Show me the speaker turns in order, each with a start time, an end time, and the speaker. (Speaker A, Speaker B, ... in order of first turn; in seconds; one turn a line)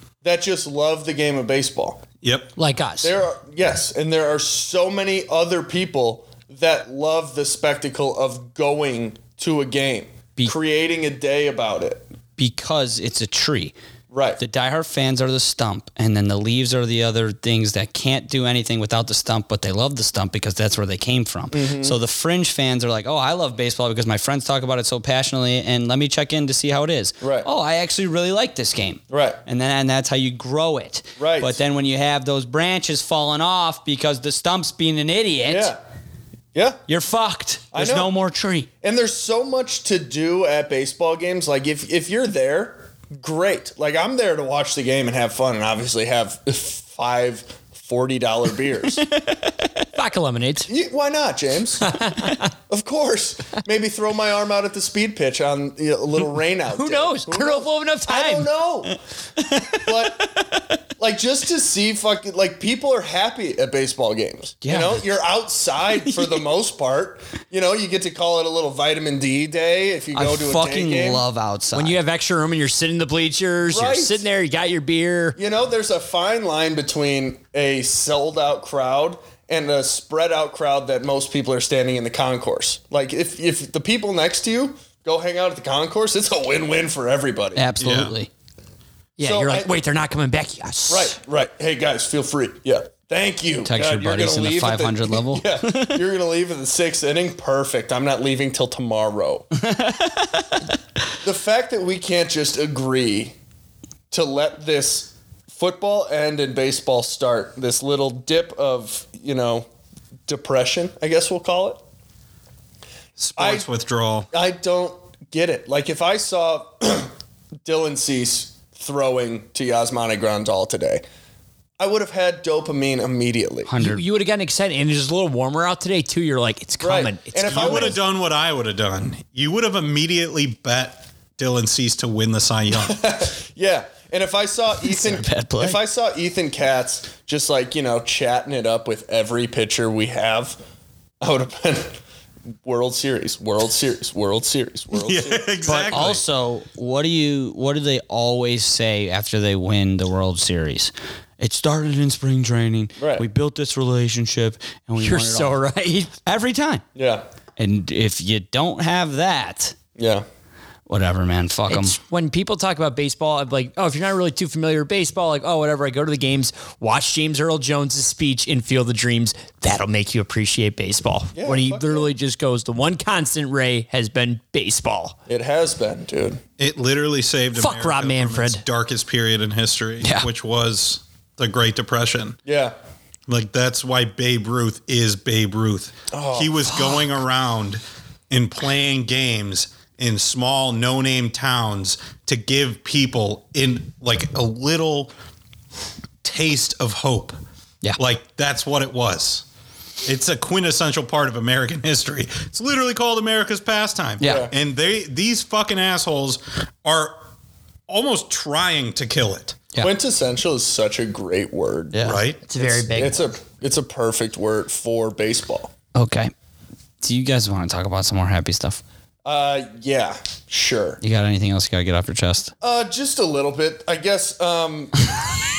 Speaker A: 0.2-2.0
Speaker B: 2.2-2.5
Speaker C: 2.6-3.1
Speaker A: 3.0-12.0
Speaker D: 12.4-13.7
Speaker A: 14.1-14.4
Speaker D: 14.4-35.7
Speaker A: 21.5-22.0
Speaker A: 27.2-27.5
Speaker A: 29.1-29.4
Speaker A: 31.2-31.6
Speaker A: 35.5-35.8
Speaker A: 36.5-36.8
Speaker D: 36.9-38.7
Speaker A: 37.7-38.1
Speaker A: 38.8-49.0
Speaker D: 49.0-49.5
Speaker C: 49.9-50.7
Speaker A: 50.6-52.0
Speaker C: 51.8-52.5
Speaker A: 52.7-59.0
Speaker C: 56.7-58.5
Speaker D: 59.4-60.8
Speaker A: 59.7-60.4
Speaker A: 61.0-71.2
Speaker D: 64.6-65.0
Speaker D: 66.0-66.4
Speaker D: 70.1-72.0
Speaker C: 71.7-75.4
Speaker A: 73.6-74.2
Speaker A: 75.3-87.6
Speaker D: 87.5-88.3
Speaker B: 87.8-88.1
Speaker C: 89.2-91.1
Speaker A: 89.2-89.7
Speaker A: 90.9-99.5
Speaker D: 93.6-96.0
Speaker D: 99.6-100.7
Speaker A: 101.2-103.3
Speaker A: 104.1-109.7
Speaker A: 110.3-111.8
Speaker B: 113.2-114.3
Speaker A: 113.4-113.7
Speaker A: 114.3-117.1
Speaker A: 117.6-121.0
Speaker A: 121.8-123.7
Speaker D: 123.7-124.0
Speaker C: 123.8-128.0
Speaker A: 126.8-128.0
Speaker B: 127.4-133.1
Speaker A: 132.7-140.6
Speaker D: 134.8-135.8
Speaker A: 141.2-142.0
Speaker A: 142.6-145.5
Speaker B: 144.9-146.2
Speaker D: 145.7-155.6
Speaker A: 153.0-153.2
Speaker C: 155.0-156.1
Speaker D: 156.2-156.8
Speaker A: 156.9-157.2
Speaker D: 157.6-159.8
Speaker A: 159.9-160.2
Speaker D: 160.9-162.0
Speaker C: 161.7-175.2
Speaker A: 171.3-172.1
Speaker A: 175.3-176.4
Speaker B: 176.6-182.4
Speaker C: 177.5-178.6
Speaker D: 180.0-180.3
Speaker A: 182.4-182.8
Speaker B: 183.3-195.1
Speaker A: 186.1-186.8
Speaker B: 196.2-197.4
Speaker B: 198.0-199.4
Speaker B: 200.0-207.2
Speaker D: 204.2-204.5
Speaker A: 204.2-204.5
Speaker B: 207.9-209.6
Speaker A: 209.8-212.0
Speaker D: 211.9-212.2
Speaker B: 212.0-212.4
Speaker C: 212.4-213.2
Speaker A: 212.6-215.7
Speaker D: 215.9-216.3
Speaker D: 217.0-218.8
Speaker A: 219.2-221.0
Speaker D: 221.0-222.5
Speaker A: 222.6-224.9